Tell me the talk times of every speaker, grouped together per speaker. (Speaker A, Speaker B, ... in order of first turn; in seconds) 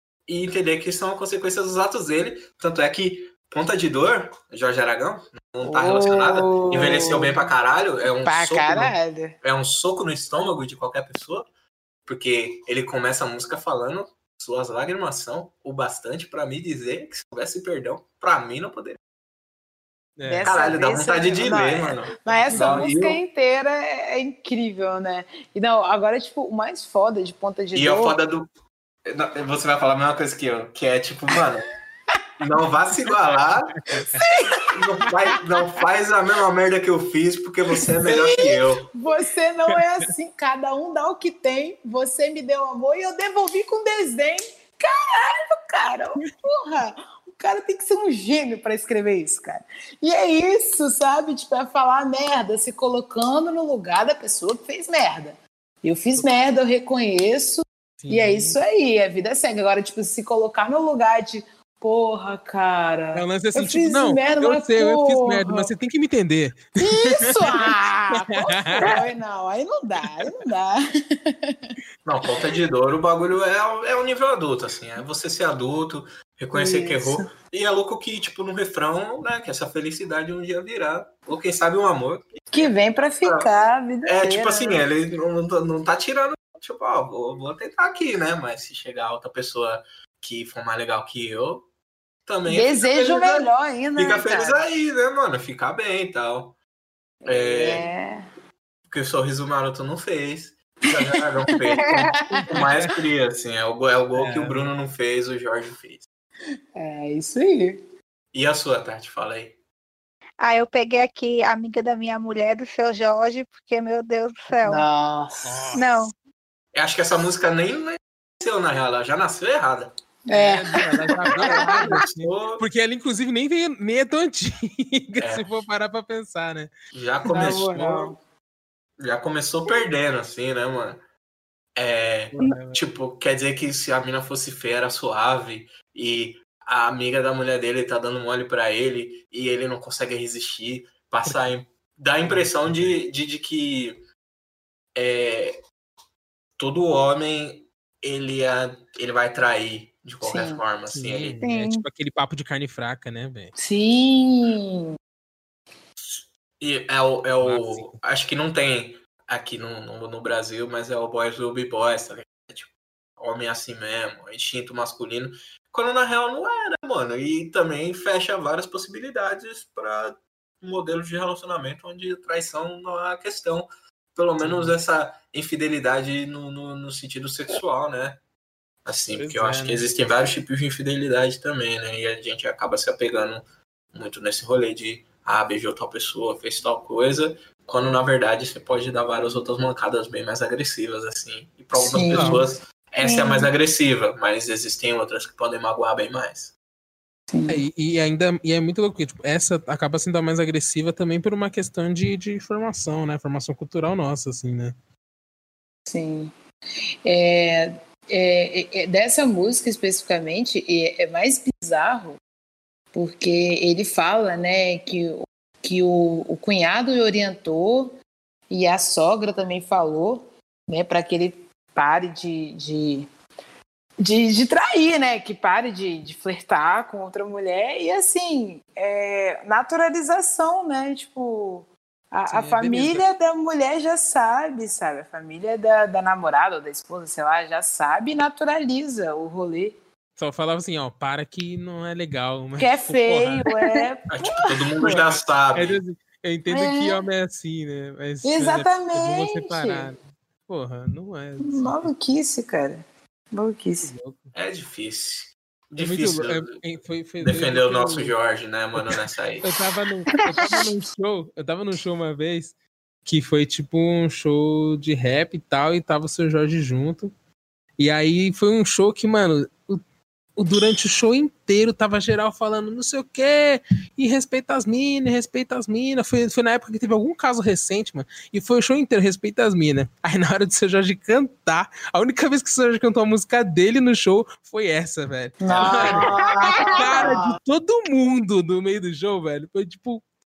Speaker A: 0.3-11.5, 12.1-19.0, 20.4-23.2, 27.7-28.5, 29.1-31.7, 32.4-34.0, 34.7-38.9, 72.0-83.5, 84.1-91.7, 92.3-96.6, 97.3-97.9, 98.9-106.1, 108.3-109.6, 116.7-119.9, 121.3-122.6, 125.2-125.5, 126.9-128.2, 129.0-131.0, 131.8-144.0, 144.9-145.6, 146.6-151.4, 156.0-178.2, 178.8-196.6, 244.1-245.8, 254.3-256.6, 257.2-259.6, 285.5-286.2
Speaker B: 5.6-7.5, 8.2-9.4, 20.3-28.2, 34.1-34.7, 38.0-65.7, 66.8-71.7, 76.5-77.3, 82.5-84.9, 92.5-94.6, 97.2-98.3, 102.2-102.7, 106.8-107.8, 114.6-115.8, 120.3-122.0, 127.3-128.2, 150.2-150.6, 153.6-154.9, 191.8-192.5, 197.3-197.6, 205.9-206.3, 207.1-212.2, 212.9-218.0, 218.5-223.1, 224.0-239.8, 242.6-244.6, 246.5-247.0, 248.2-249.9, 251.4-253.9, 260.2-260.6, 285.4-287.4
Speaker C: 20.2-20.7, 22.5-22.9, 33.9-34.3, 58.0-58.6, 63.1-69.0, 102.5-102.9, 104.2-104.7, 115.4-116.1, 120.3-126.7, 132.3-132.8, 141.2-141.6, 142.2-142.9, 150.9-153.5, 157.4-158.0, 174.4-174.8, 179.2-179.8, 192.1-192.4, 197.5-204.8, 232.3-233.1, 240.2-243.5, 244.8-251.9, 253.8-254.3, 255.8-258.1, 259.0-267.1, 267.8-269.8, 270.4-290.1
Speaker D: 101.7-102.1, 110.4-114.8, 115.8-116.1, 151.4-151.9, 193.0-193.5, 286.2-286.8